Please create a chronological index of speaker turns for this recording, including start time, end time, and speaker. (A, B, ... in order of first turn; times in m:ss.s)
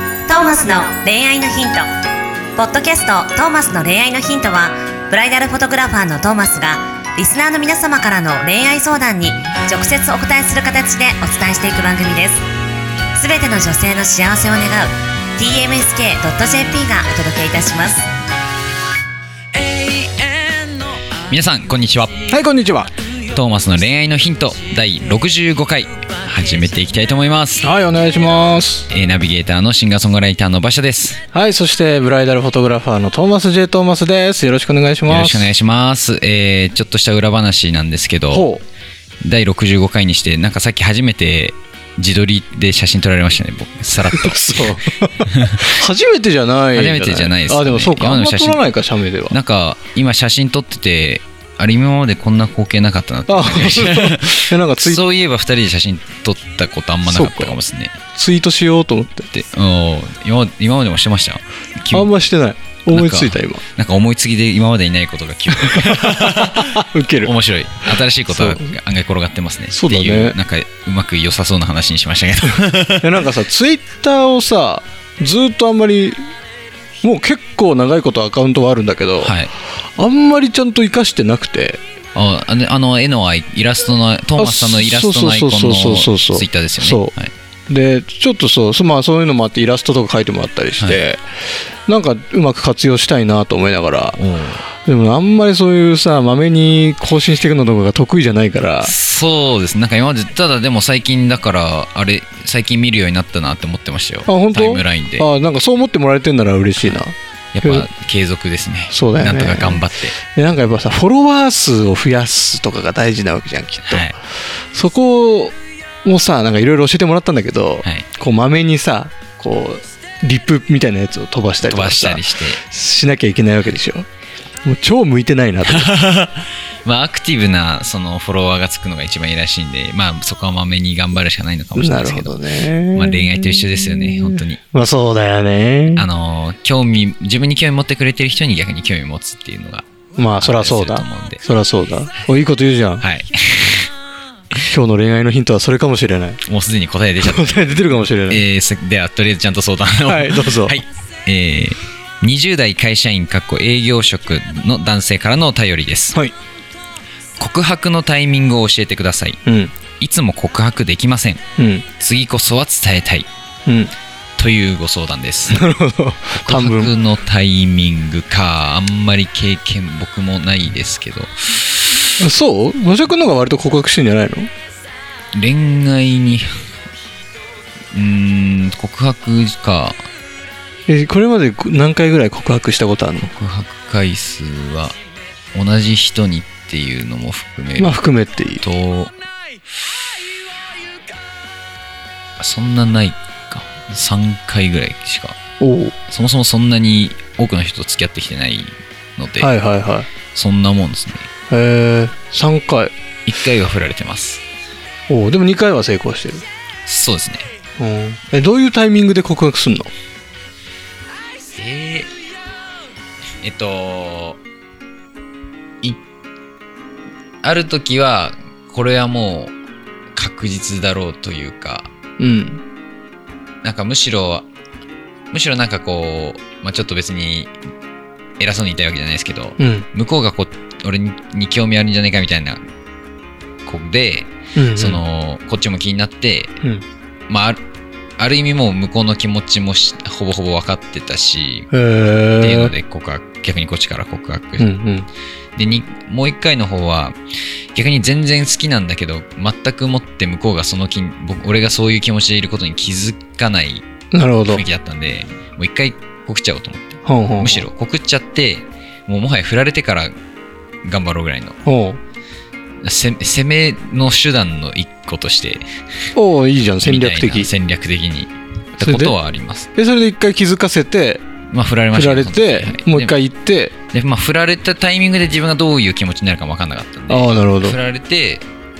0:00.3-0:01.8 A
0:02.6-0:12.4 A
0:13.1-0:18.1 A
0:19.5-0:22.2 B
0:22.3-0:22.9 C
0:23.3-0:27.7 B
0:27.6-0:28.9 C
0:28.9-0:31.2 B
0:31.3-0:35.5 C
0:35.1-0:38.5 B
0:38.3-0:38.6 C
0:39.2-0:45.8 B
0:44.1-0:49.4 C
0:46.7-0:48.6 B
0:49.3-0:57.9 B
0:53.3-0:55.0 C
0:57.0-0:57.6 C
0:58.1-0:59.3 C
0:59.3-1:02.1 B
1:01.9-1:03.6 C
1:02.9-1:13.1 B
1:05.5-1:07.3 C
1:07.8-1:08.7 C
1:09.7-1:10.4 C
1:13.0-1:16.2 C
1:17.0-1:21.8 C
1:19.2-1:19.5 B
1:22.1-1:27.3 B
1:24.4-1:27.1 C
1:27.7-1:31.2 C
1:31.9-1:34.2 C
1:34.1-1:34.6 B
1:34.8-1:38.9 C
1:38.8-1:45.3 B
1:44.2-1:47.9 C
1:47.5-1:50.2 B
1:48.9-1:54.1 C
1:53.8-1:54.2 B
1:54.7-2:04.1 C
2:01.6-2:02.6 B
2:04.6-2:06.0 C
2:05.7-2:12.4 B
2:11.7-2:16.0 C
2:12.9-2:14.6 B
2:15.9-2:19.8 B
2:20.2-2:23.0 C
2:20.4-2:21.4 B
2:23.0-2:23.9 B
2:24.6-2:26.4 C
2:26.4-2:27.8 B
2:27.2-2:28.4 C
2:28.3-2:36.2 B
2:30.0-2:30.8 C
2:37.4-2:39.4 B
2:39.4-2:39.7 C
2:40.0-2:41.4 B
2:41.6-2:41.8 C
2:42.0-2:43.3 B
2:43.7-2:43.9 C
2:44.4-2:45.6 B
2:45.5-2:46.9 C
2:46.3-2:52.0 B
2:52.2-2:54.5 C
2:55.3-2:56.6 B
2:57.9-3:00.0 B
3:00.9-3:03.3 C
3:03.2-3:04.9 B
3:05.5-3:08.0 B
3:07.8-3:08.6 C
3:08.6-3:09.1 B
3:12.4-3:15.4 B
3:15.6-3:16.0 C
3:16.1-3:19.5 B
3:19.4-3:20.1 C
3:20.3-3:21.3 B
3:21.5-3:22.9 C
3:23.3-3:24.4 B
3:25.1-3:26.4 C
3:26.9-3:27.5 B
3:27.8-3:29.9 C
3:31.5-3:32.1 B
3:33.4-3:34.4 B
3:37.4-3:39.5 B
3:40.1-3:41.9 B
3:42.2-3:42.6 C
3:43.6-3:44.4 B
3:45.3-3:47.5 B
3:48.4-3:52.6 B
3:49.6-3:49.9 C
3:53.6-3:56.5 B
3:54.5-3:55.0 C
3:57.3-3:57.6 B
3:58.2-4:01.7 B
4:01.7-4:02.7 C
4:02.4-4:04.7 B
4:04.6-4:05.1 C
4:05.6-4:07.2 B
4:07.7-4:13.8 B
4:14.1-4:14.6 C
4:14.5-4:20.1 B
4:17.0-4:17.6 C
4:20.8-4:21.6 B
4:21.6-4:22.0 C
4:22.8-4:25.6 B
4:26.1-4:27.5 C
4:26.8-4:29.7 B
4:28.8-4:29.2 C
4:29.7-4:31.2 C
4:31.5-4:33.2 B
4:31.9-4:33.7 C
4:33.9-4:38.4 B
4:37.1-4:37.8 C